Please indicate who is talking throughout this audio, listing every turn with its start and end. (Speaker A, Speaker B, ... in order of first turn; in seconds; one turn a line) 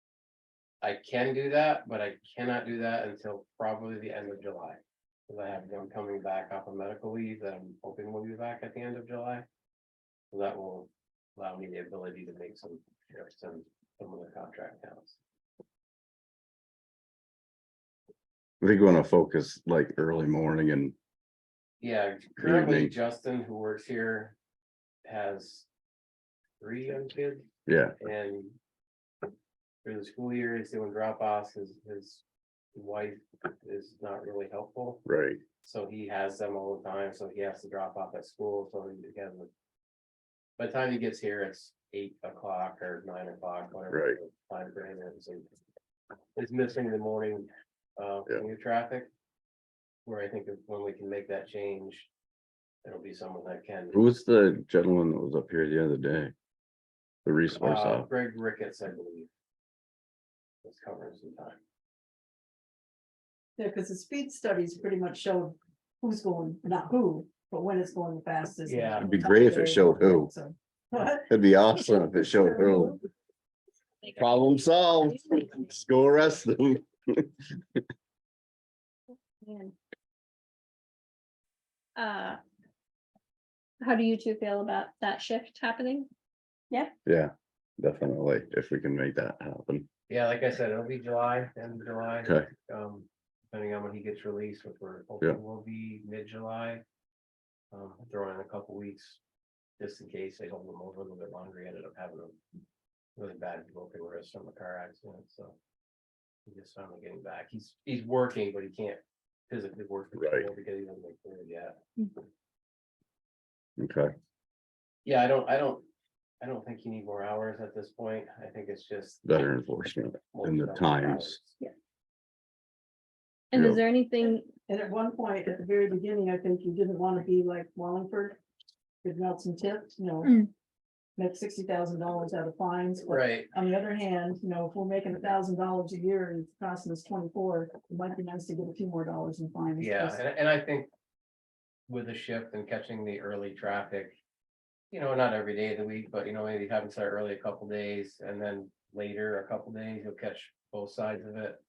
Speaker A: 0.8-9.4
Speaker A: 10.3-15.2
Speaker B: 18.6-20.9
Speaker A: 21.8-24.3
Speaker B: 22.4-22.9
Speaker A: 25.0-25.7
Speaker A: 26.6-27.5
Speaker B: 27.7-28.0
Speaker A: 28.0-28.6
Speaker A: 29.8-32.2
Speaker A: 32.7-35.0
Speaker B: 35.0-35.4
Speaker A: 35.6-39.5
Speaker A: 40.6-45.5
Speaker B: 43.9-44.2
Speaker A: 46.4-49.1
Speaker A: 50.0-52.1
Speaker A: 52.8-54.0
Speaker B: 53.9-56.3
Speaker B: 57.2-58.1
Speaker A: 57.5-59.3
Speaker A: 60.6-61.6
Speaker C: 63.6-73.0
Speaker A: 68.7-69.1
Speaker B: 69.0-70.3
Speaker B: 71.3-73.0
Speaker B: 74.2-77.8
Speaker D: 79.4-79.7
Speaker D: 82.0-82.4
Speaker D: 83.8-86.1
Speaker B: 87.0-89.9
Speaker A: 90.1-96.8
Speaker B: 92.2-92.5
Speaker A: 97.7-99.2
Speaker A: 99.8-102.4
Speaker A: 103.2-105.5
Speaker A: 106.5-112.0
Speaker B: 110.2-110.5
Speaker B: 113.8-114.1
Speaker A: 115.0-115.8
Speaker A: 116.4-119.3
Speaker B: 119.2-121.4
Speaker A: 120.3-121.5
Speaker D: 123.5-124.5
Speaker B: 123.5-123.8
Speaker C: 124.7-128.4
Speaker C: 129.0-130.4
Speaker D: 130.2-130.5
Speaker C: 131.2-140.2
Speaker A: 133.1-133.5
Speaker A: 139.8-140.9
Speaker A: 141.9-144.1
Speaker A: 144.9-151.6